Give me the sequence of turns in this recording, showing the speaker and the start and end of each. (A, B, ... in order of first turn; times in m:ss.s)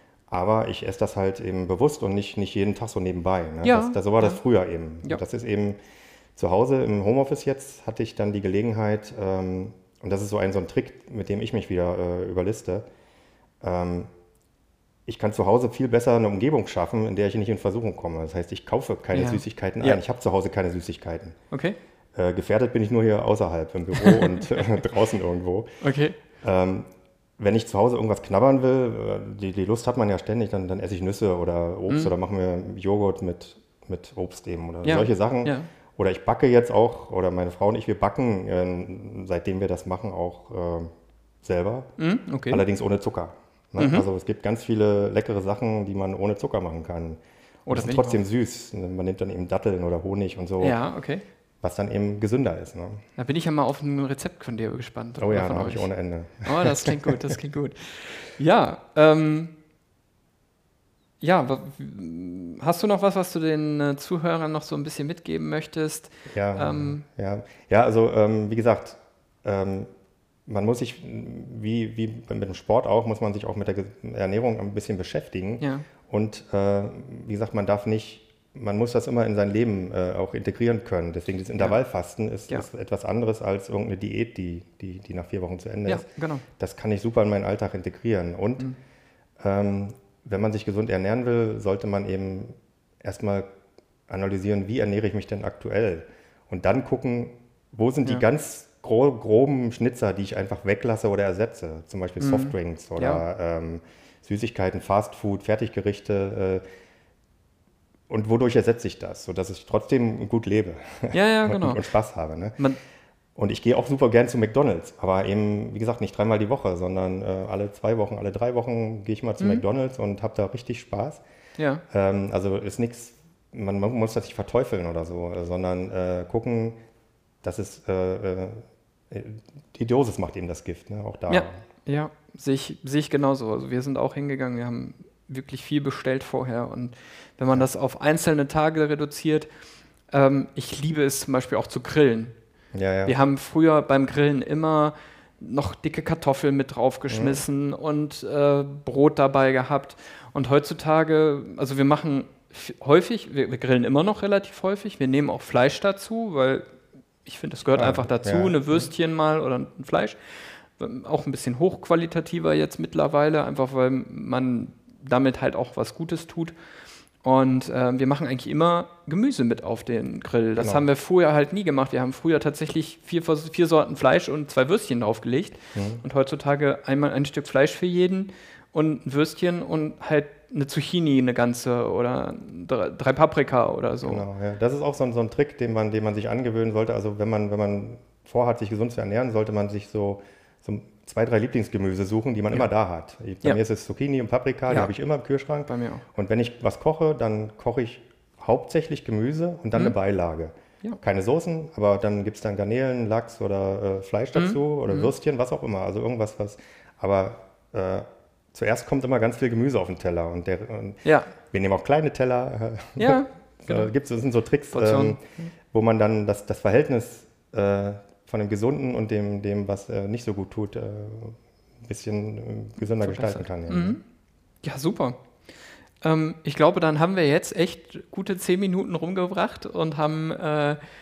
0:00.3-0:05.8 A
0:03.6-0:04.4 B
0:06.4-0:12.9 A
0:13.6-0:14.1 A
0:15.1-0:21.4 A
0:19.1-0:20.0 B
0:21.5-0:21.8 B
0:22.2-0:25.7 A
0:23.9-0:24.6 B
0:25.8-0:26.2 B
0:26.3-0:40.9 A
0:34.8-0:35.7 B
0:41.4-0:41.9 A
0:42.0-0:42.6 B
0:42.5-0:50.8 A
0:43.8-0:44.1 B
0:47.7-0:48.2 B
0:50.6-0:51.2 B
0:51.6-0:53.0 A
0:53.2-0:55.9 B
0:55.2-0:57.4 A
0:56.5-0:59.6 B
1:01.2-1:07.0 B
1:06.2-1:09.9 A
1:10.5-1:28.7 A
1:15.6-1:15.9 B
1:25.9-1:26.5 B
1:29.4-1:33.5 A
1:34.1-1:46.6 A
1:42.2-1:43.2 B
1:48.1-1:52.6 A
1:51.1-1:51.9 B
1:53.4-2:01.2 A
1:59.4-1:59.7 B
2:01.6-2:01.8 B
2:01.9-2:06.8 A
2:07.4-2:11.7 A
2:11.3-2:19.5 B
2:20.1-2:22.4 B
2:22.7-2:23.2 A
2:23.0-2:36.6 B
2:27.1-2:27.4 A
2:37.2-2:40.2 B
2:37.8-2:38.9 A
2:40.7-2:46.5 B
2:47.2-3:04.3 B
2:50.6-2:50.9 A
2:55.7-2:56.0 A
3:04.0-3:44.0 A
3:14.7-3:14.9 B
3:15.7-3:16.1 B
3:24.3-3:25.1 B
3:31.0-3:31.4 B
3:33.0-3:33.9 B
3:34.7-3:35.5 B
3:43.0-3:44.0 B
3:44.6-3:45.2 B
3:46.0-3:50.8 B